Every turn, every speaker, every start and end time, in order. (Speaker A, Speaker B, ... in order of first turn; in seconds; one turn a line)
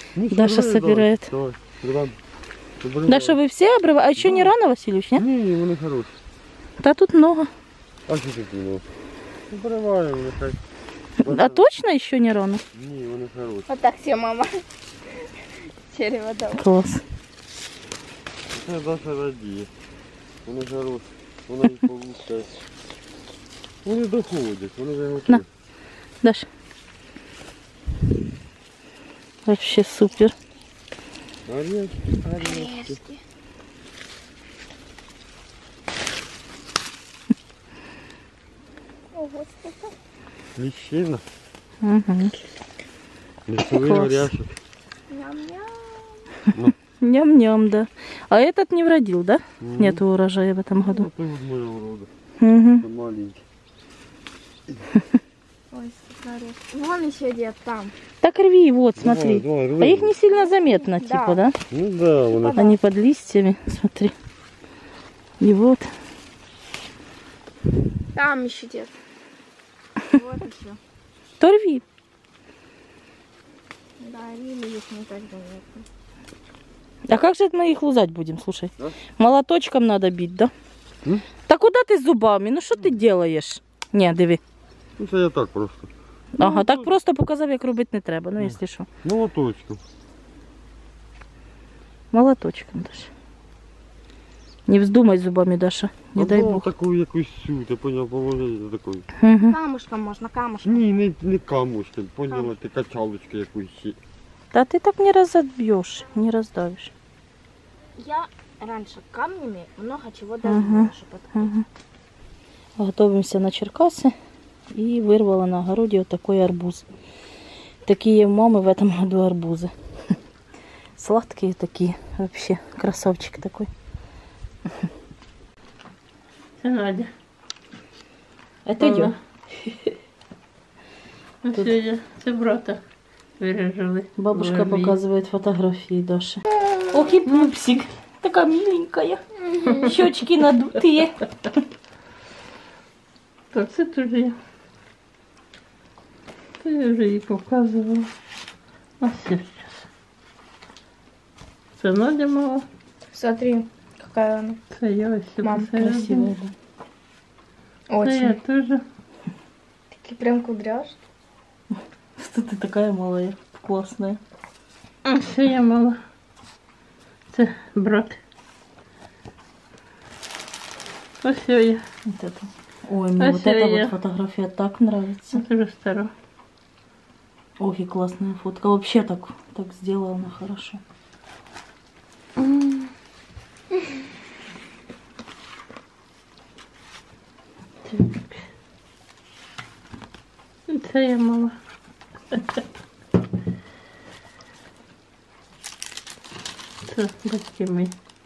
Speaker A: 0.2-2.2
Speaker B: 0.3-1.3
Speaker A: 2.8-3.4
Speaker B: 3.1-5.2
Speaker A: 4.2-4.5
Speaker A: 5.2-6.1
Speaker B: 6.8-7.5
Speaker A: 8.1-8.8
Speaker A: 9.5-10.6
Speaker A: 11.2-11.7
Speaker B: 11.2-12.6
Speaker A: 12.7-13.7
Speaker C: 13.7-14.6
Speaker C: 15.6-16.6
Speaker B: 16.6-17.0
Speaker A: 18.5-19.7
Speaker A: 20.4-22.5
Speaker A: 23.9-25.4
Speaker B: 29.5-30.3
Speaker A: 31.5-33.0
Speaker C: 32.4-33.2
Speaker C: 39.1-40.0
Speaker A: 40.6-41.2
Speaker B: 41.8-42.3
Speaker A: 43.5-44.5
Speaker B: 43.7-44.3
Speaker C: 45.1-46.2
Speaker B: 47.0-51.1
Speaker A: 49.6-50.0
Speaker A: 50.9-52.1
Speaker B: 52.4-52.9
Speaker A: 52.8-53.4
Speaker C: 55.7-58.0
Speaker B: 58.2-61.6
Speaker A: 59.0-60.1
Speaker C: 60.4-61.4
Speaker A: 61.7-62.7
Speaker C: 62.3-62.8
Speaker B: 62.5-64.1
Speaker B: 65.4-65.9
Speaker C: 68.2-69.0
Speaker C: 70.1-70.8
Speaker B: 71.4-71.8
Speaker C: 74.0-75.8
Speaker B: 77.1-80.5
Speaker B: 81.5-84.4
Speaker A: 85.0-85.9
Speaker B: 86.4-88.9
Speaker A: 86.5-86.9
Speaker A: 88.4-89.8
Speaker B: 92.1-93.1
Speaker B: 94.7-96.7
Speaker A: 96.2-99.1
Speaker B: 99.2-99.6
Speaker C: 99.5-100.9
Speaker A: 100.6-104.0
Speaker B: 104.5-106.9
Speaker C: 108.0-111.5
Speaker B: 110.4-111.7
Speaker B: 112.8-114.1
Speaker B: 114.7-116.9
Speaker B: 117.8-119.7
Speaker B: 121.0-123.7
Speaker D: 126.6-127.1
Speaker B: 128.7-129.9
Speaker D: 128.8-129.2
Speaker D: 131.4-132.8
Speaker D: 133.4-135.0
Speaker B: 134.2-141.5
Speaker D: 137.2-137.5
Speaker D: 143.5-144.4
Speaker D: 146.6-148.1
Speaker D: 149.0-149.9
Speaker D: 151.8-152.7
Speaker C: 153.1-154.6
Speaker D: 154.7-156.3
Speaker C: 155.4-155.7
Speaker B: 155.8-156.5
Speaker C: 157.9-158.4
Speaker D: 158.0-158.8
Speaker C: 159.9-161.0
Speaker B: 162.2-164.2
Speaker D: 165.1-166.0
Speaker D: 167.3-168.2
Speaker D: 171.2-171.8
Speaker B: 172.1-175.4
Speaker D: 173.2-173.9
Speaker D: 175.3-176.1
Speaker B: 177.6-180.8
Speaker D: 182.4-182.9
Speaker D: 187.8-188.5
Speaker D: 190.7-191.6
Speaker D: 192.3-192.6
Speaker D: 196.8-197.9